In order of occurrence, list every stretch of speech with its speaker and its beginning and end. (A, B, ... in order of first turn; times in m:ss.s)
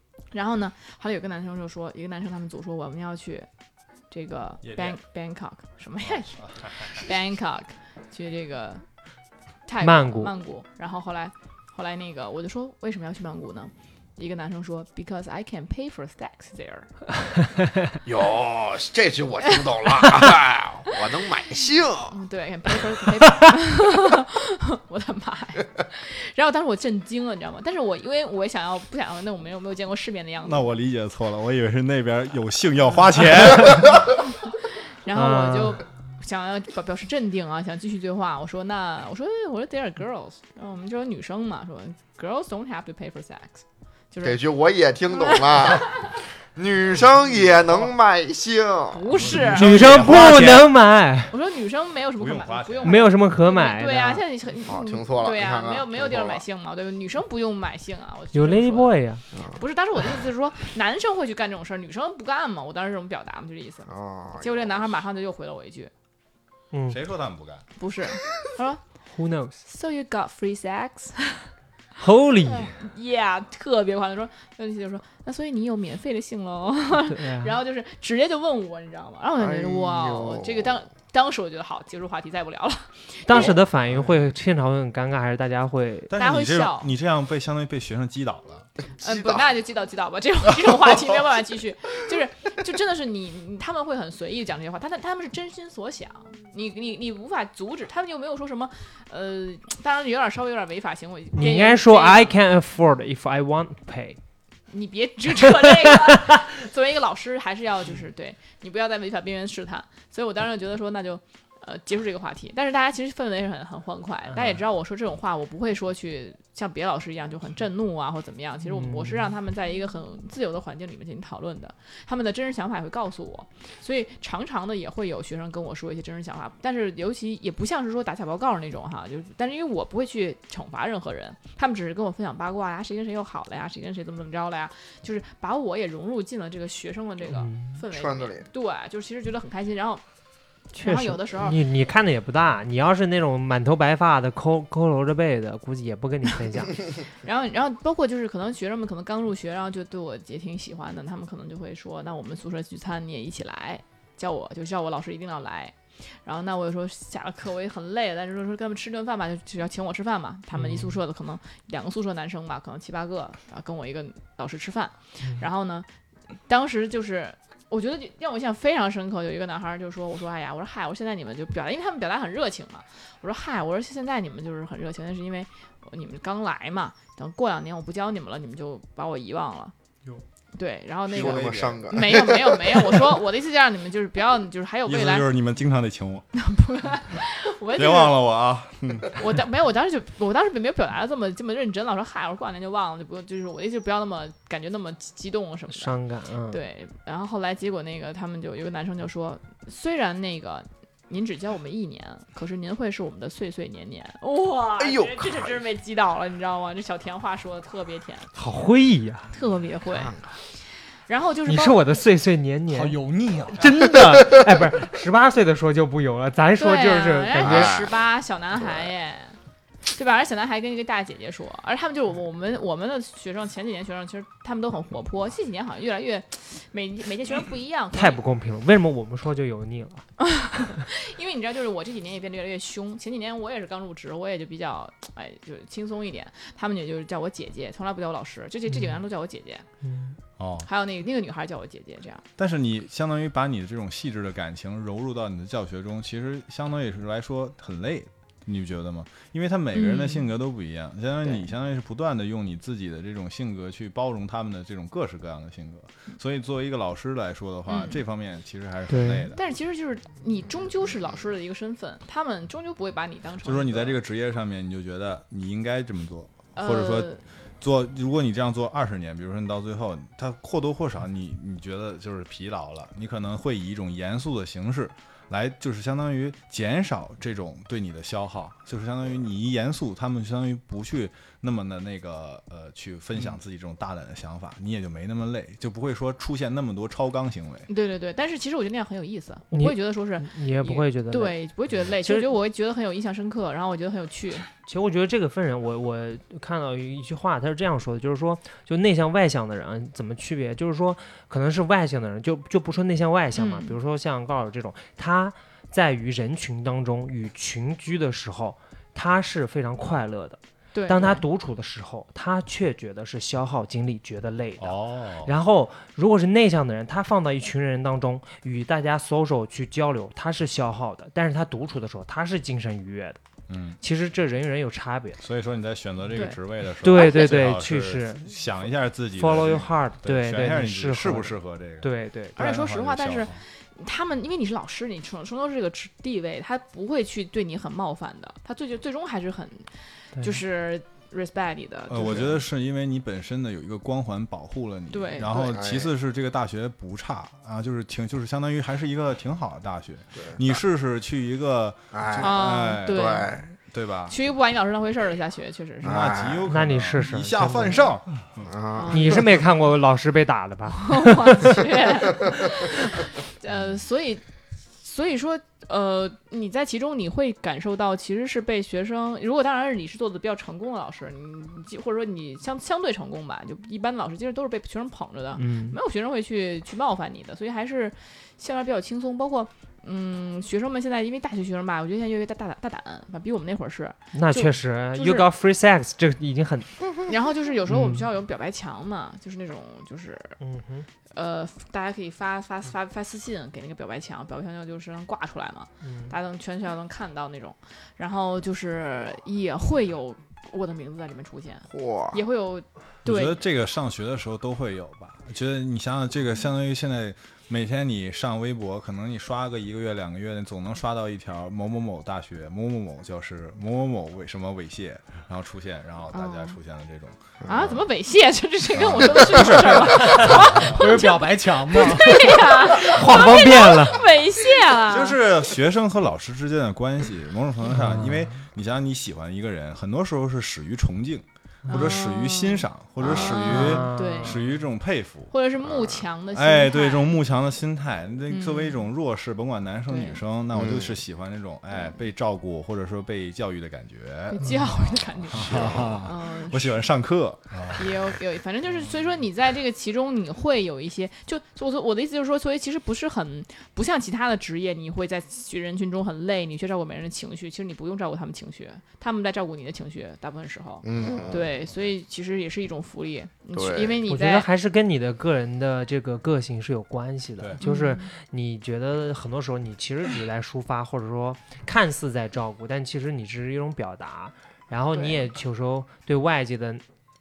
0:00.3-0:03.5 A
0:04.1-0:08.8 A
0:04.6-0:05.0 B
0:06.4-0:06.9 B
0:09.7-0:16.9 A
0:09.8-0:10.3 C
0:18.0-0:22.2 D
0:22.1-0:30.7 A
0:30.4-0:34.0 B
0:35.0-0:44.4 A
0:35.1-0:35.8 C
0:44.2-0:49.0 D
0:48.9-0:49.8 A
0:49.3-0:50.7 B
0:49.3-0:51.3 C
0:51.3-1:05.9 A
0:52.2-0:53.1 B
0:52.8-0:54.2 C
0:54.6-0:56.4 D
0:58.3-0:59.2 C
1:03.9-1:04.6 D
1:06.7-1:07.0 C
1:06.9-1:07.6 B
1:07.8-1:08.8 A
1:09.1-1:09.6 C
1:09.6-1:11.5 A
1:12.0-1:12.8 C
1:12.5-1:23.6 A
1:17.1-1:17.6 C
1:19.4-1:20.8 D
1:23.3-1:26.1 C
1:26.1-1:28.7 B
1:26.2-1:26.9 A
1:29.0-1:42.3 A
1:29.0-1:29.4 D
1:41.4-1:44.2 C
1:44.7-2:20.0 A
1:58.6-1:59.3 C
2:17.4-2:17.7 C
2:17.9-2:18.5 D
2:20.7-2:26.8 C
2:20.8-2:21.6 A
2:27.2-2:45.9 A
2:40.5-2:41.0 C
2:46.5-2:59.7 A
3:00.6-3:05.3 A
3:01.1-3:03.1 D
3:01.2-3:01.6 B
3:04.9-3:06.3 B
3:06.3-3:08.2 A
3:07.8-3:09.1 B
3:09.1-3:16.0 A
3:15.7-3:16.6 C
3:16.5-3:28.3 A
3:24.8-3:25.6 D
3:28.4-3:29.3 C
3:29.3-3:31.8 A
3:31.5-3:33.0 C
3:32.7-3:33.7 E
3:33.5-3:37.8 C
3:36.6-3:39.4 A
3:37.4-3:37.9 D
3:39.9-3:48.2 A
3:47.9-3:50.8 C
3:50.2-3:59.7 A
3:58.7-3:59.0 C
3:59.8-4:00.2 C
4:00.4-4:00.7 B
4:00.6-4:02.2 A
4:02.4-4:19.4 B
4:09.7-4:10.3 A
4:17.7-4:18.0 A
4:18.9-4:19.3 C
4:19.3-4:24.0 A
4:23.4-4:47.7 B
4:26.6-4:27.2 A
4:47.7-4:54.5 A
4:49.5-4:52.3 C
4:54.6-5:23.2 C
5:03.4-5:03.8 A
5:10.7-5:11.2 A
5:14.6-5:15.3 B
5:23.5-5:23.8 B
5:23.8-5:25.2 C
5:25.2-5:33.4 B
5:26.8-5:28.4 C
5:27.0-5:27.3 A
5:29.1-5:32.4 C
5:32.4-5:42.4 A
5:41.9-5:54.2 B
5:44.9-5:45.5 A
5:45.3-5:45.9 D
5:50.2-5:50.5 D
5:51.9-5:53.5 D
5:52.2-5:53.4 A
5:54.1-5:56.2 A
5:55.8-5:58.6 B
5:55.8-5:56.5 D
5:56.5-5:57.9 C
5:58.5-5:59.2 D
5:58.8-5:59.3 A
5:58.9-6:01.7 C
6:00.8-6:04.2 A
6:04.8-6:25.3 A
6:15.4-6:15.8 C
6:24.1-6:26.9 C
6:27.1-6:30.4 A
6:27.7-6:28.1 C
6:30.4-6:30.9 C
6:31.1-6:43.4 A
6:35.8-6:36.1 C
6:41.7-6:42.2 D
6:43.0-6:57.8 B
6:56.1-6:56.6 A
6:57.5-7:05.2 A
6:58.8-7:00.8 B
7:00.7-7:02.6 E
7:02.6-7:04.0 C
7:04.9-7:15.3 B
7:07.7-7:08.3 C
7:11.7-7:14.4 A
7:13.0-7:13.4 D
7:13.4-7:14.4 C
7:15.3-7:17.2 A
7:15.7-7:16.0 D
7:16.3-7:27.8 B
7:18.3-7:18.8 A
7:19.9-7:20.2 A
7:20.5-7:20.9 D
7:24.3-7:26.8 A
7:25.4-7:26.1 E
7:25.5-7:25.9 D
7:27.7-7:44.5 A
7:40.8-7:41.4 D
7:41.0-7:41.5 B
7:43.6-7:44.0 D
7:44.1-7:56.8 C
7:47.6-7:48.1 A
7:54.9-7:55.3 A